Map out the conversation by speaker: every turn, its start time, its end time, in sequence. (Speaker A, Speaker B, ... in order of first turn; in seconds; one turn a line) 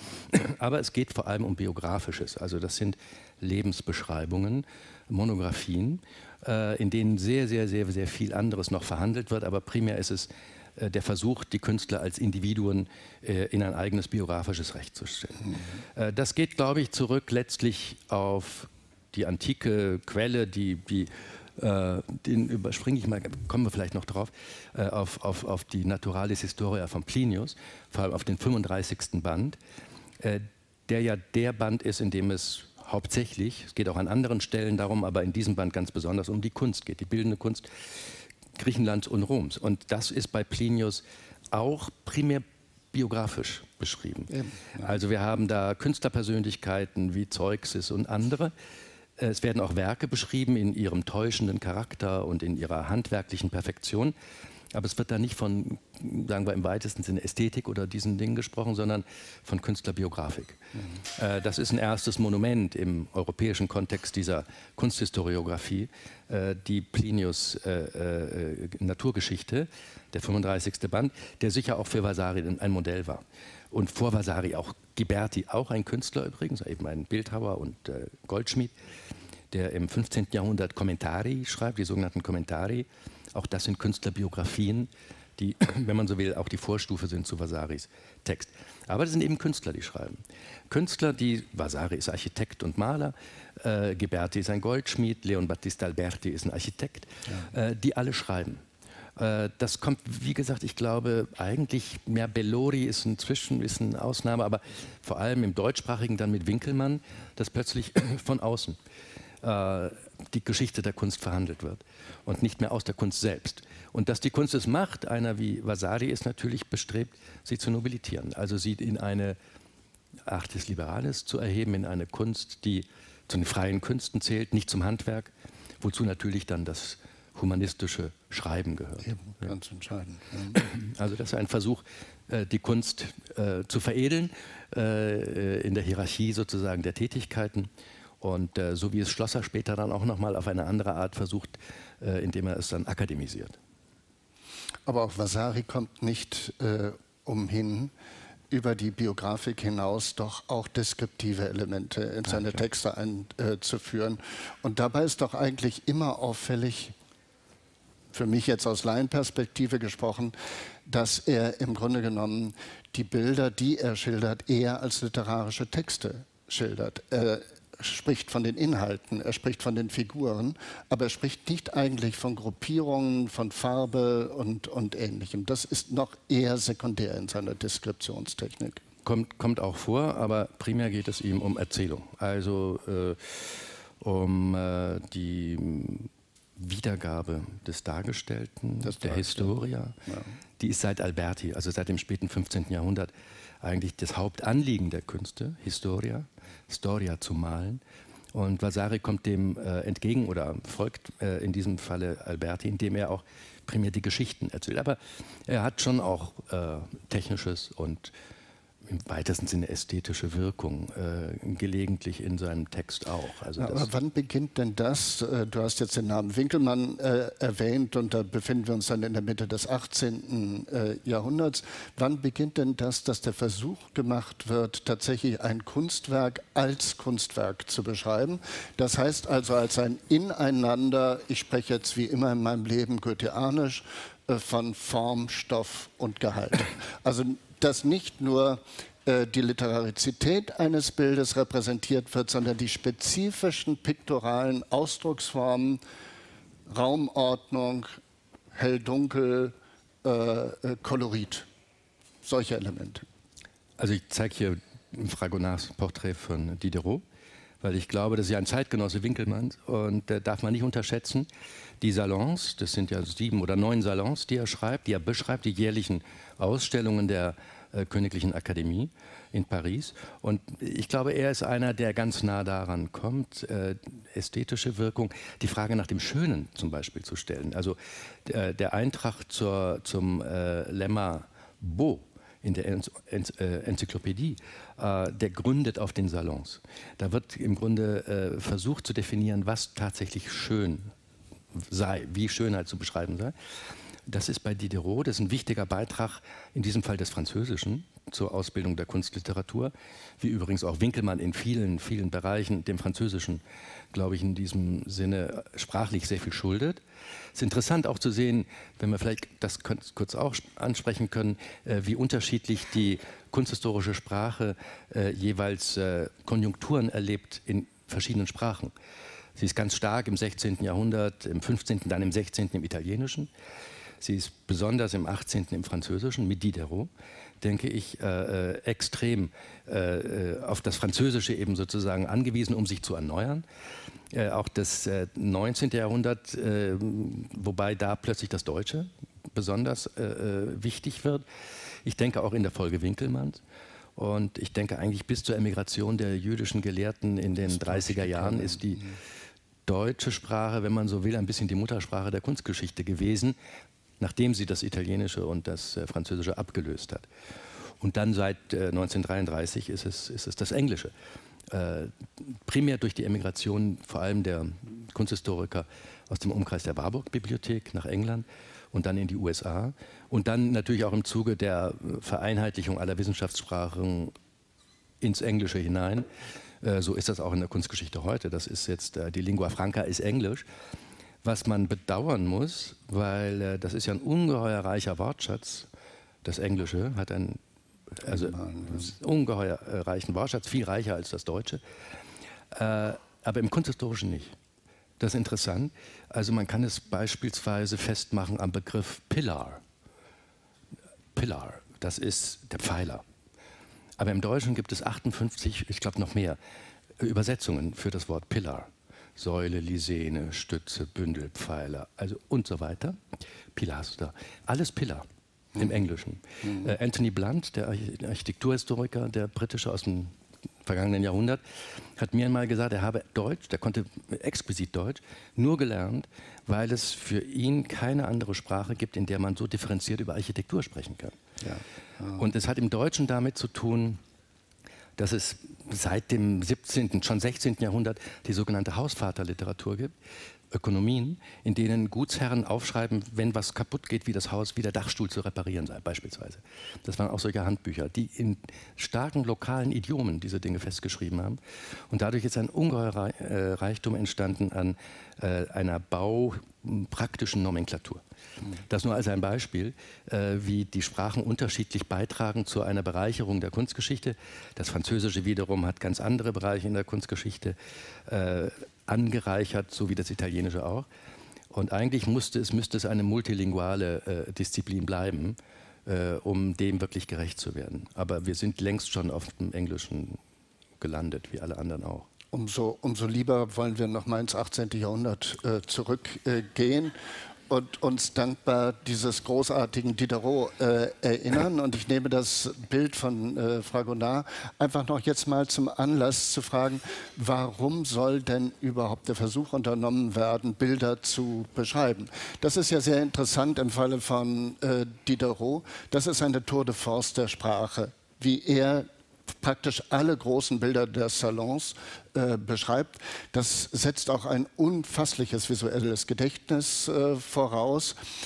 Speaker A: 0.3-29.6
Speaker A: 30.2-37.7
Speaker A: 38.6-48.5
Speaker B: 44.3-44.9
Speaker A: 49.2-54.1
Speaker A: 54.7-60.6
Speaker A: 61.1-78.7
Speaker A: 79.5-98.6
Speaker A: 99.2-108.8
Speaker A: 109.4-119.4
Speaker A: 120.3-129.1
Speaker B: 129.1-130.6
Speaker A: 130.5-137.7
Speaker A: 138.2-143.6
Speaker B: 144.9-147.9
Speaker B: 148.5-156.9
Speaker B: 158.1-160.3
Speaker B: 160.9-178.8
Speaker A: 179.1-190.0
Speaker B: 188.8-189.5
Speaker B: 190.1-190.3
Speaker A: 190.6-193.1
Speaker A: 193.6-197.8
Speaker A: 198.3-208.1
Speaker A: 208.9-213.9
Speaker B: 213.6-245.8
Speaker B: 246.7-248.0
Speaker B: 248.5-251.5
Speaker B: 252.2-253.1
Speaker A: 253.8-257.0
Speaker A: 257.6-261.3
Speaker A: 261.8-290.9
Speaker A: 291.6-293.4
Speaker A: 294.1-303.4
Speaker A: 303.9-306.8
Speaker A: 307.4-318.7
Speaker A: 319.4-323.3
Speaker A: 324.0-326.9
Speaker A: 327.4-333.4
Speaker A: 334.1-341.2
Speaker A: 341.9-343.4
Speaker A: 344.0-348.9
Speaker B: 347.4-349.0
Speaker A: 349.7-353.4
Speaker A: 354.0-357.1
Speaker A: 357.8-360.9
Speaker A: 361.5-374.1
Speaker A: 375.0-376.1
Speaker A: 376.6-380.4
Speaker A: 381.2-385.7
Speaker A: 386.2-387.4
Speaker A: 388.0-391.6
Speaker B: 388.0-388.9
Speaker A: 392.5-394.4
Speaker A: 395.0-399.6
Speaker A: 401.1-403.0
Speaker A: 404.0-406.4
Speaker A: 407.0-413.0
Speaker A: 413.5-420.1
Speaker B: 416.4-416.7
Speaker A: 420.6-421.4
Speaker A: 422.0-431.2
Speaker B: 431.4-432.2
Speaker A: 432.1-434.0
Speaker A: 435.0-439.9
Speaker A: 440.5-458.0
Speaker A: 458.7-467.6
Speaker A: 468.1-470.9
Speaker A: 471.5-480.2
Speaker A: 480.8-482.1
Speaker B: 482.3-486.9
Speaker B: 487.5-508.9
Speaker B: 509.4-518.0